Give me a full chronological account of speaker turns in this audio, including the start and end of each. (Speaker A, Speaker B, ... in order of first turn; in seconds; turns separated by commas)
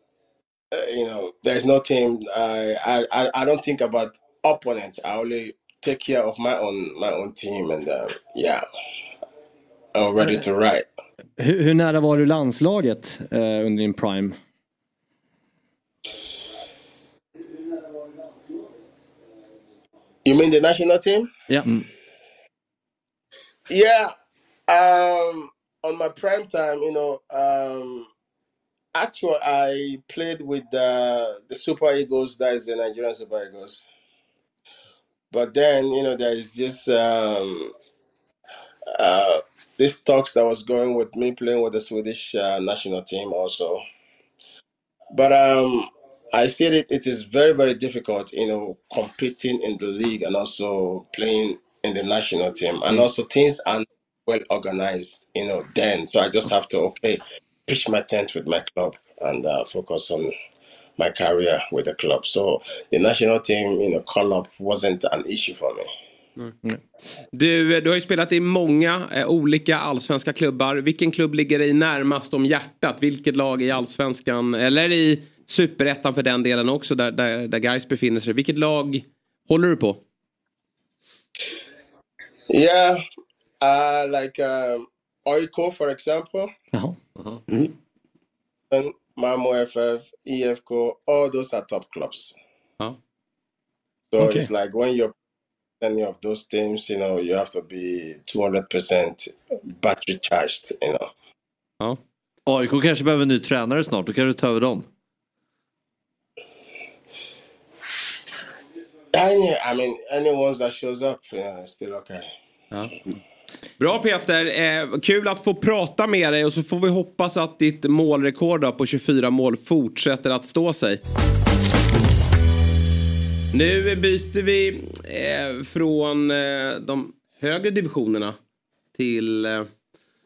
Speaker A: 0.7-8.7, Speaker A: 9.9-10.9, Speaker B: 11.4-14.4, Speaker A: 20.2-21.3, Speaker A: 23.7-24.1, Speaker A: 24.7-28.1, Speaker A: 28.9-33.9, Speaker A: 35.3-37.8, Speaker A: 38.9-43.8, Speaker A: 45.1-60.3, Speaker A: 61.0-65.9, Speaker C: 67.3-80.0, Speaker A: 82.5-83.0, Speaker A: 83.6-86.5, Speaker A: 88.7-92.4, Speaker A: 94.1-95.1, Speaker B: 94.2-94.5, Speaker A: 95.8-101.1, Speaker D: 102.5-104.9, Speaker A: 109.1-112.3, Speaker C: 113.8-121.0, Speaker C: 123.5-128.4, Speaker C: 128.9-129.7